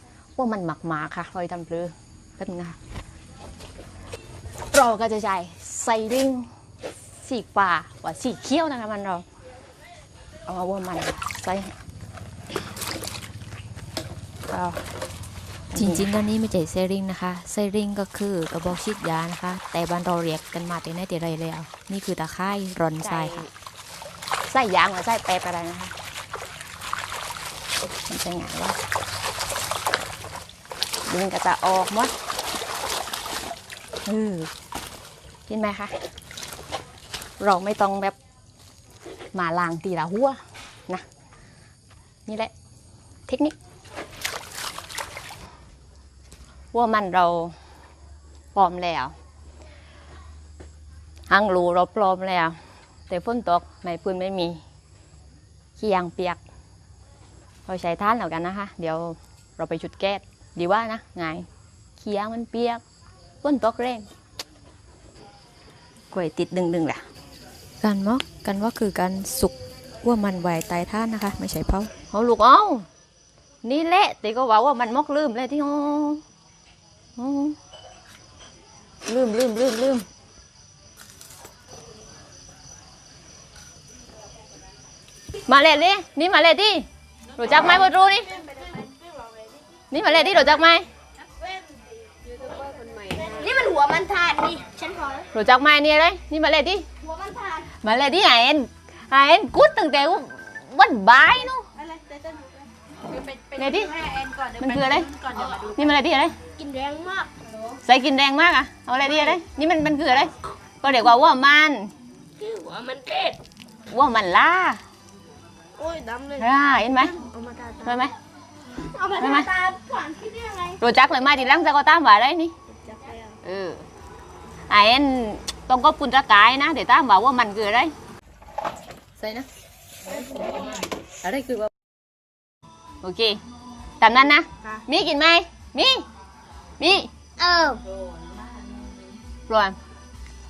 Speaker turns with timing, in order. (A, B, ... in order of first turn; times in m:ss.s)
0:00.4-0:02.8 A
0:04.7-0:06.5 A
0:07.2-0:09.2 A
0:10.5-0:11.7 A
0:14.5-0:14.8 A
0:15.7-0:16.1 A
0:15.8-0:23.4 B
0:23.0-0:23.5 A
0:24.5-0:25.9 A
0:28.1-0:28.8 A
0:31.1-0:32.1 A
0:34.1-0:34.5 A
0:35.5-0:36.0 A
0:37.4-0:38.1 A
0:39.3-0:41.0 A
0:42.2-0:42.5 A
0:43.3-0:43.5 A
0:46.7-0:47.6 A
0:48.5-0:49.1 A
0:51.3-0:52.6 A
0:53.1-0:54.6 A
0:55.8-0:56.4 A
0:57.7-1:01.4 A
1:02.0-1:02.8 A
1:03.4-1:04.1 A
1:06.1-1:07.0 A
1:07.8-1:09.5 A
1:08.4-1:09.4 B
1:10.0-1:12.9 A
1:11.2-1:11.9 B
1:13.6-1:16.2 A
1:17.2-1:17.6 A
1:19.1-1:20.1 A
1:25.5-1:28.4 A
1:29.9-1:30.9 A
1:32.2-1:35.3 C
1:35.3-1:36.8 A
1:37.0-1:37.7 C
1:37.7-1:41.7 A
1:41.8-1:42.4 C
1:43.1-1:45.7 C
1:43.5-1:46.4 A
1:46.6-1:47.3 C
1:47.8-1:51.9 A
1:52.4-1:53.4 C
1:53.9-1:54.8 A
1:55.8-1:56.4 C
1:56.3-1:57.2 A
1:57.2-1:57.8 C
1:57.8-1:58.1 A
1:58.8-2:00.8 C
1:59.2-1:59.5 A
2:00.8-2:02.5 A
2:02.8-2:03.3 C
2:03.4-2:03.8 A
2:04.7-2:07.9 A
2:09.2-2:09.5 A
2:11.2-2:11.7 A
2:13.0-2:13.4 A
2:14.0-2:16.1 A
2:16.8-2:17.2 A
2:17.6-2:17.8 C
2:19.5-2:19.8 A